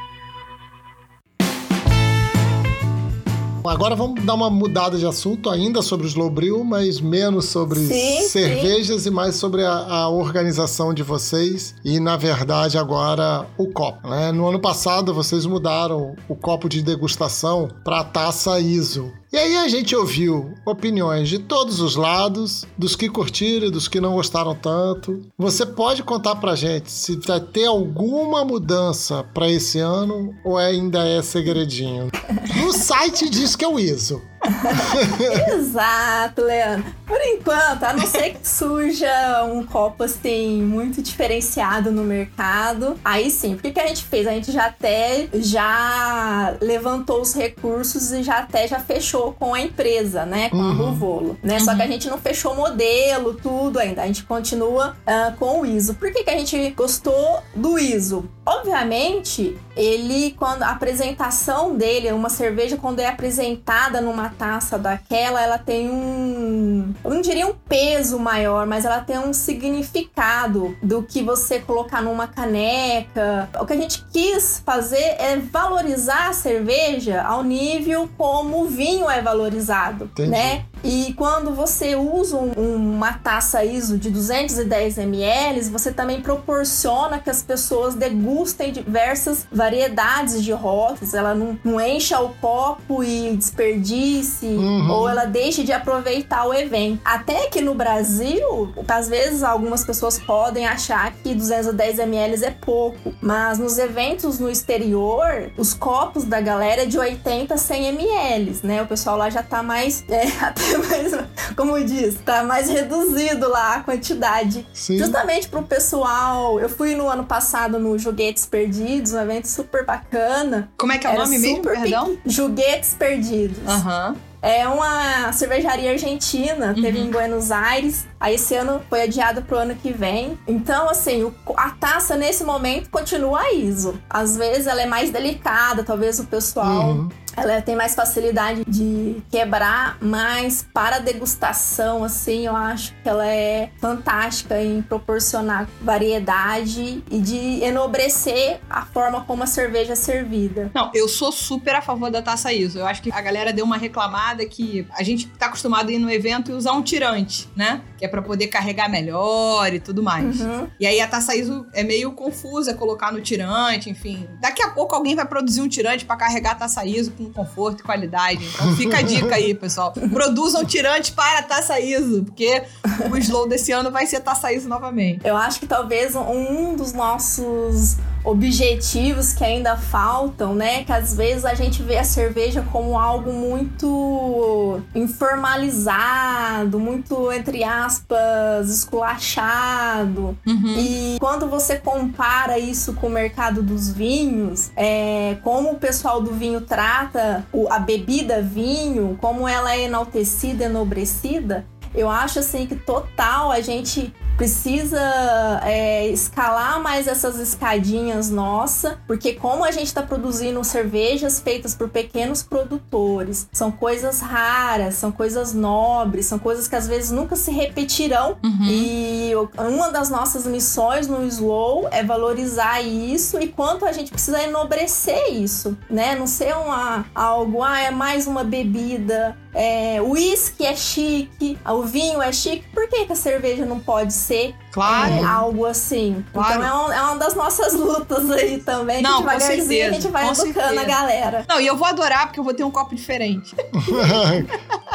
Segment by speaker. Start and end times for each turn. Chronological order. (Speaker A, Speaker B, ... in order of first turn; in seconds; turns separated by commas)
Speaker A: 3.6-35.5, Speaker B: 7.7-8.7, Speaker B: 34.6-123.8, Speaker A: 50.5-51.1, Speaker C: 51.6-51.9, Speaker A: 80.2-80.6, Speaker A: 94.6-95.2, Speaker A: 114.8-115.2, Speaker C: 120.8-122.1, Speaker C: 123.7-124.2, Speaker B: 124.4-150.7, Speaker C: 126.8-127.1, Speaker A: 136.6-137.1, Speaker C: 150.8-175.2, Speaker B: 160.2-160.7, Speaker B: 175.2-241.5, Speaker C: 190.5-190.9, Speaker C: 218.4-218.9, Speaker C: 234.7-235.4, Speaker A: 234.9-235.3, Speaker C: 236.3-236.7, Speaker C: 239.0-241.0, Speaker C: 241.5-244.2, Speaker A: 243.8-244.5